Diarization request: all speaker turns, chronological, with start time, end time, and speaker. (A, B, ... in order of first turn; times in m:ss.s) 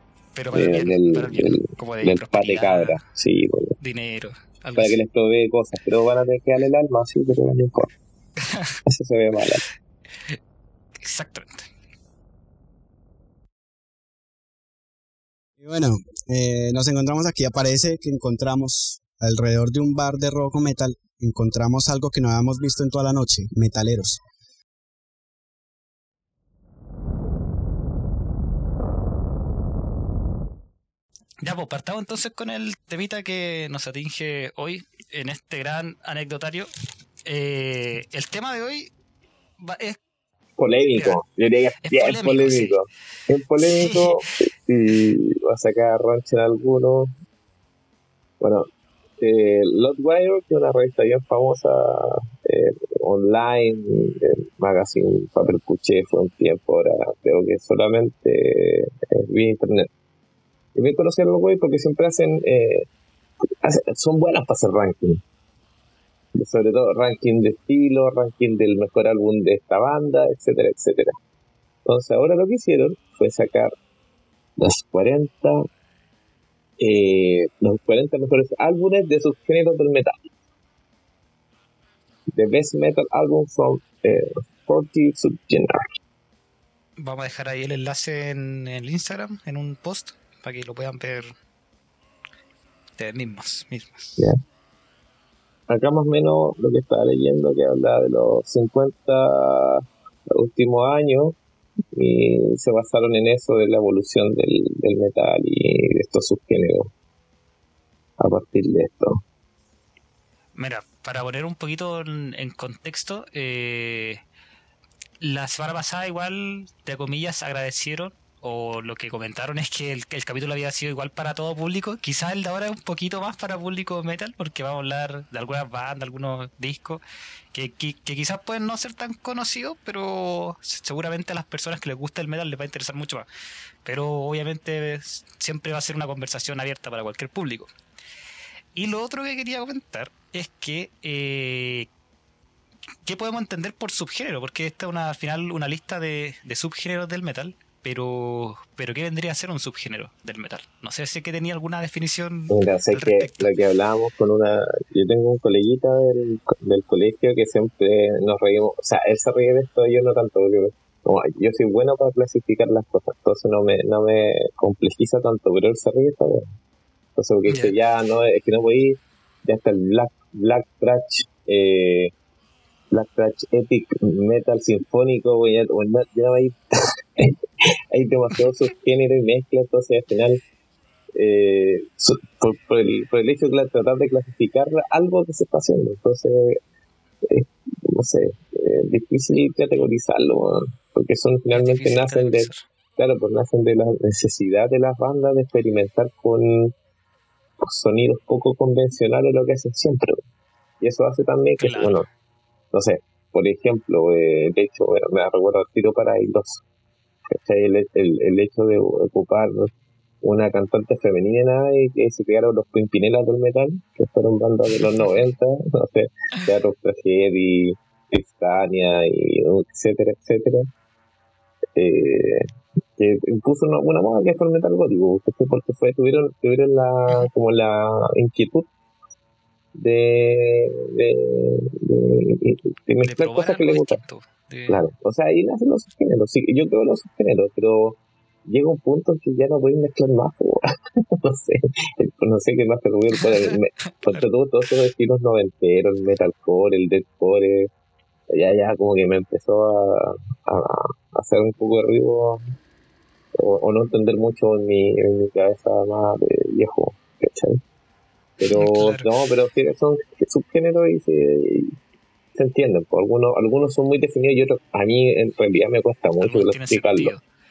0:00.4-0:03.0 A
0:00.5-0:03.8 B
0:03.8-0:05.0 A
0:04.8-0:07.9 B
0:08.4-0:08.8 A
0:08.9-0:09.6 B
0:11.0-0:11.7 A
0:15.6-0:24.2 C
0:31.4-0:36.7 A
0:37.2-0:38.9 A
0:39.6-0:40.0 A
0:40.6-0:47.1 B
0:40.9-0:41.2 A
0:41.8-0:42.8 A
0:43.6-0:44.3 A
0:48.4-0:48.7 B
0:49.2-0:59.9 B
1:00.8-1:02.9 B
1:03.6-1:05.2 B
1:06.4-1:11.1 B
1:11.8-1:13.7 B
1:14.6-1:15.6 B
1:16.8-1:20.3 B
1:22.3-1:25.8 B
1:27.0-1:31.3 A
1:33.0-1:34.3 A
1:35.7-1:41.4 B
1:41.9-1:46.9 B
1:48.2-1:49.2 B
1:50.6-1:54.2 A
1:55.2-2:07.0 A
2:07.5-2:13.3 A
2:13.8-2:17.7 A
2:18.7-2:21.9 A
2:23.0-2:33.5 A
2:32.5-2:46.4 B
2:47.2-2:52.1 B
2:47.5-2:47.7 A
2:52.9-2:57.4 B
2:57.9-3:00.4 B
3:01.2-3:06.6 B
3:07.2-3:16.7 B
3:11.5-3:12.6 A
3:17.6-3:20.2 B
3:20.8-3:22.0 B
3:21.6-3:22.1 A
3:22.7-3:26.6 B
3:27.3-3:29.7 B
3:30.2-3:40.7 B
3:34.7-3:35.1 A
3:41.8-3:48.7 B
3:49.8-3:54.0 B
3:53.0-3:54.8 A
3:54.7-4:00.7 B
4:01.2-4:07.7 B
4:04.0-4:04.2 A
4:08.3-4:12.4 B
4:13.4-4:17.6 B
4:18.4-4:21.8 B
4:18.4-4:19.1 A
4:22.4-4:27.1 B
4:26.2-4:27.2 A